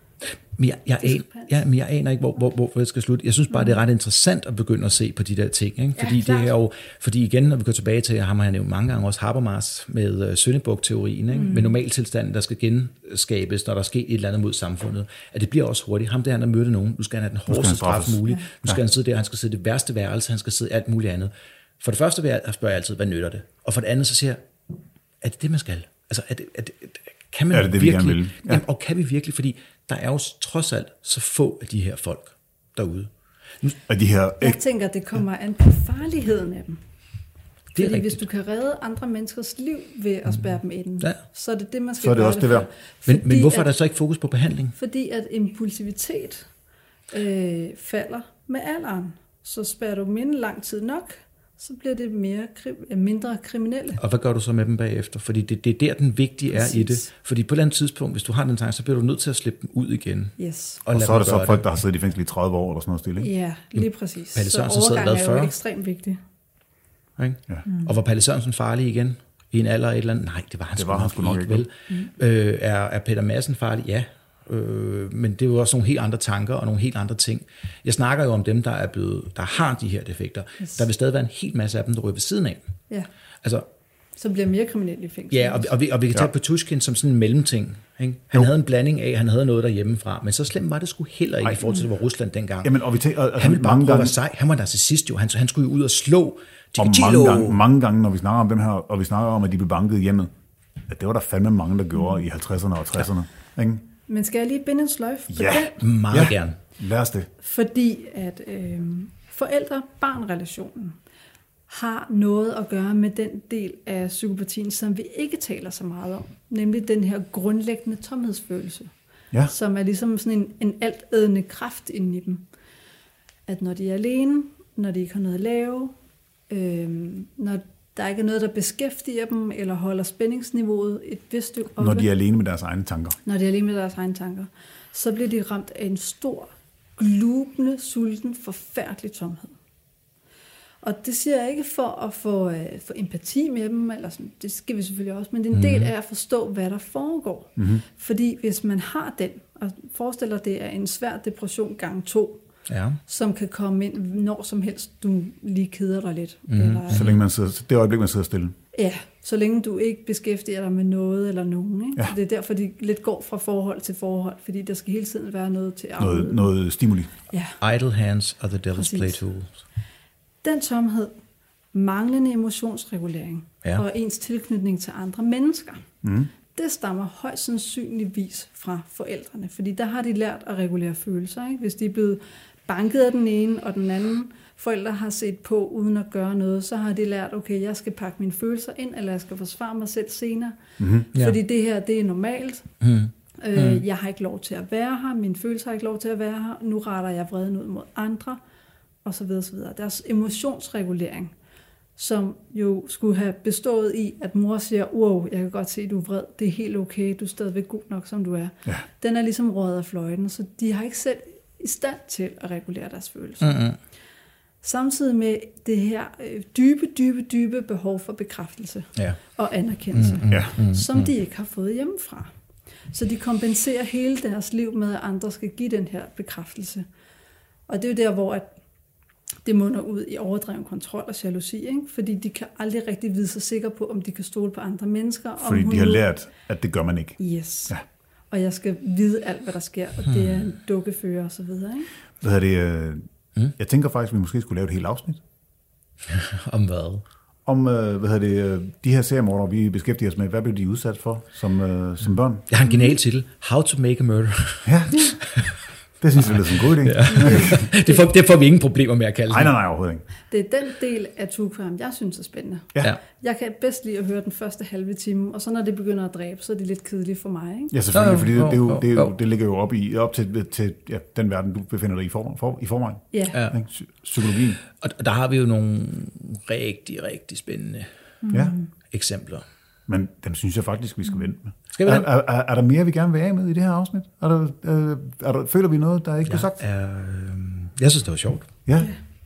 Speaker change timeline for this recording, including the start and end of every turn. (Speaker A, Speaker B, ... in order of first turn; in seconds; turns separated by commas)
Speaker A: 0.6-24.4, Speaker B: 1.0-1.5, Speaker B: 3.5-3.8, Speaker B: 6.0-6.5, Speaker B: 11.3-11.8, Speaker C: 17.5-18.8, Speaker A: 25.2-33.1, Speaker C: 27.5-28.6, Speaker C: 33.9-34.6, Speaker B: 34.4-36.8, Speaker A: 37.7-38.2, Speaker B: 37.7-43.7, Speaker C: 42.0-42.7, Speaker A: 43.0-44.7, Speaker B: 44.7-46.5, Speaker B: 47.1-54.0, Speaker A: 54.0-61.6, Speaker B: 56.5-57.1, Speaker B: 60.4-60.8, Speaker C: 60.9-63.3, Speaker B: 63.2-66.2, Speaker A: 64.3-65.5, Speaker A: 67.2-82.6, Speaker B: 67.7-67.9, Speaker C: 70.8-71.7, Speaker A: 83.4-83.7, Speaker B: 84.2-85.7, Speaker A: 85.3-92.8, Speaker C: 92.6-94.2, Speaker A: 93.3-97.6, Speaker C: 96.8-100.3, Speaker C: 100.9-103.8, Speaker B: 104.1-105.8, Speaker C: 105.3-107.3, Speaker A: 105.8-106.6, Speaker B: 107.4-111.0, Speaker B: 111.7-118.9, Speaker B: 119.5-122.5, Speaker B: 123.5-125.9, Speaker B: 126.5-132.1, Speaker C: 131.8-133.2, Speaker B: 133.2-139.6, Speaker B: 140.8-152.4, Speaker A: 145.5-145.9, Speaker C: 147.6-147.8, Speaker A: 152.7-153.0, Speaker B: 153.1-157.1, Speaker A: 156.5-157.2, Speaker C: 156.9-158.5, Speaker B: 158.7-166.5, Speaker C: 166.0-167.1, Speaker B: 167.3-167.6, Speaker A: 167.6-169.5, Speaker B: 168.7-169.2, Speaker B: 170.4-171.1, Speaker B: 171.7-175.8, Speaker C: 176.0-176.3, Speaker B: 176.5-192.7, Speaker C: 190.8-191.1, Speaker A: 192.8-193.8, Speaker B: 193.4-198.4, Speaker B: 199.0-201.3, Speaker B: 201.9-213.6, Speaker A: 213.4-213.8, Speaker B: 214.6-222.3, Speaker A: 219.9-221.1, Speaker B: 222.9-226.8, Speaker B: 227.7-228.5, Speaker B: 229.4-236.0, Speaker C: 235.4-237.2, Speaker B: 237.2-237.8, Speaker B: 238.3-241.9, Speaker A: 240.1-240.5, Speaker C: 242.2-243.0, Speaker C: 243.6-245.2, Speaker A: 246.1-247.0, Speaker C: 247.4-252.4, Speaker A: 252.5-255.5, Speaker B: 252.7-252.9, Speaker C: 254.6-255.1, Speaker C: 256.0-257.6, Speaker A: 256.2-259.5, Speaker B: 257.1-258.1, Speaker C: 259.3-260.0, Speaker B: 260.3-267.7, Speaker C: 267.7-274.6, Speaker A: 267.9-269.1, Speaker B: 273.1-273.4, Speaker A: 274.6-277.9, Speaker B: 278.2-278.7, Speaker A: 278.9-279.4, Speaker C: 279.9-286.6, Speaker A: 281.7-282.1, Speaker A: 286.3-288.5, Speaker C: 288.7-288.9